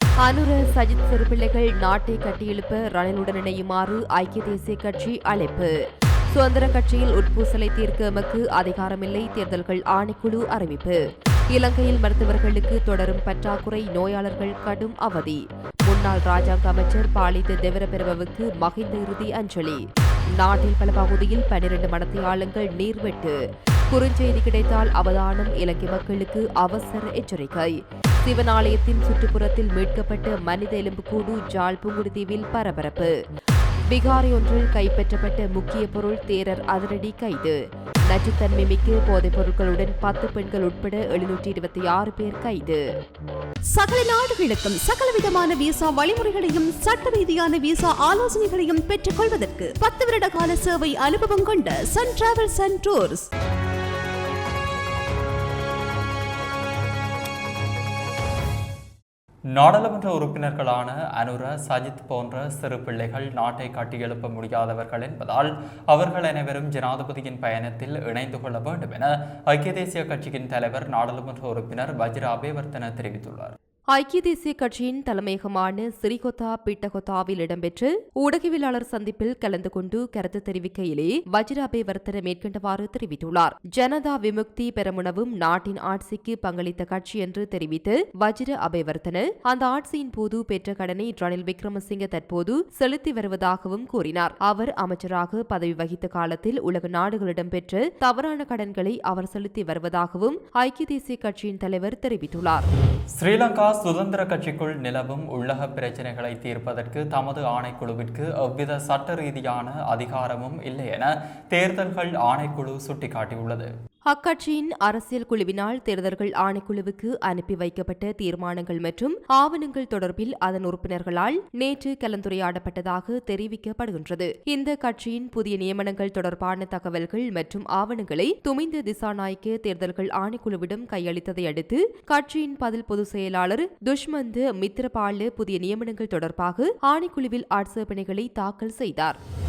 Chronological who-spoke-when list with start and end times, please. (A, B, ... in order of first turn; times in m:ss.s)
0:00.2-0:05.7 A
0:06.3-0:11.0 A
0:11.5-0:23.4 A
0:23.9-0:33.2 A
0:33.9-0:37.6 A
0:38.1-0:42.8 A
0:43.7-0:53.3 B
0:59.6-1:13.6 C
1:13.9-1:42.7 A
1:43.2-1:53.7 C
1:54.1-2:19.2 A